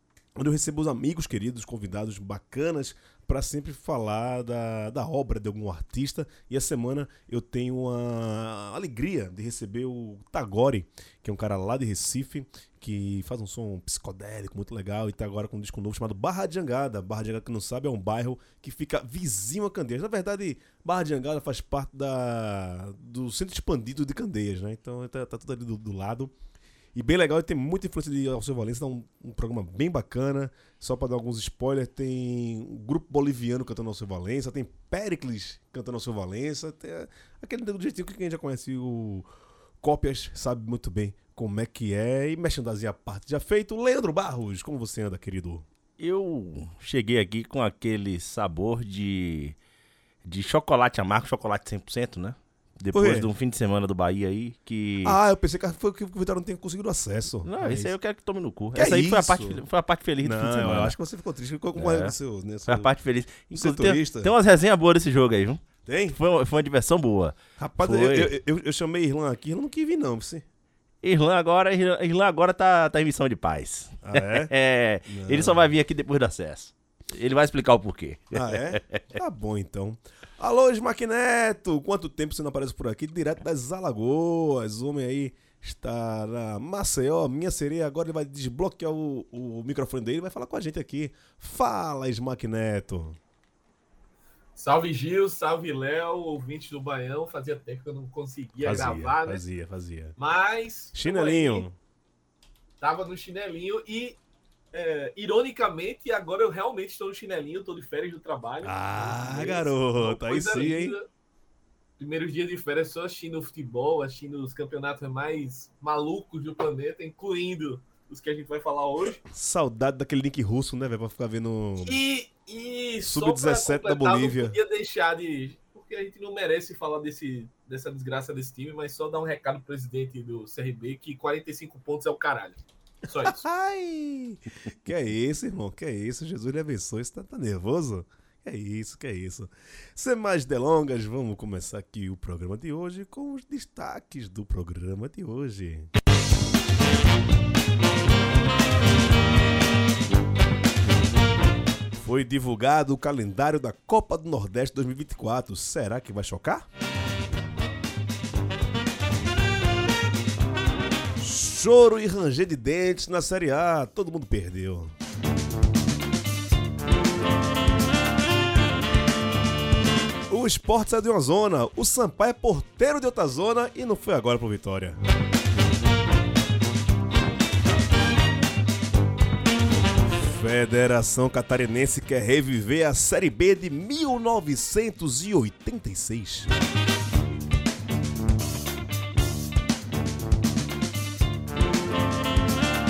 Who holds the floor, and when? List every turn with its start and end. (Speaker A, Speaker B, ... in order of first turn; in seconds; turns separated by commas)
Speaker A: 0.4-26.3, Speaker A: 26.9-39.3, Speaker A: 39.8-45.6, Speaker B: 46.0-49.5, Speaker B: 50.2-55.2, Speaker A: 52.9-53.3, Speaker A: 55.0-57.9, Speaker B: 57.4-61.0, Speaker A: 58.7-59.6, Speaker A: 60.2-62.9, Speaker B: 61.8-62.1, Speaker B: 62.6-68.3, Speaker A: 63.5-64.3, Speaker A: 65.8-66.2, Speaker A: 67.6-70.4, Speaker B: 71.0-79.0, Speaker A: 74.0-74.5, Speaker A: 75.0-75.7, Speaker A: 78.3-93.2, Speaker C: 94.5-99.4, Speaker A: 98.6-100.2, Speaker C: 100.2-101.7, Speaker A: 100.9-101.8, Speaker C: 102.8-104.2, Speaker C: 104.7-111.0, Speaker A: 108.6-110.9, Speaker C: 112.0-119.2, Speaker A: 119.2-122.0, Speaker C: 121.8-133.4, Speaker A: 123.0-124.6, Speaker A: 133.2-145.9, Speaker A: 152.0-156.7, Speaker A: 161.2-164.9, Speaker A: 170.3-175.0, Speaker A: 180.2-186.5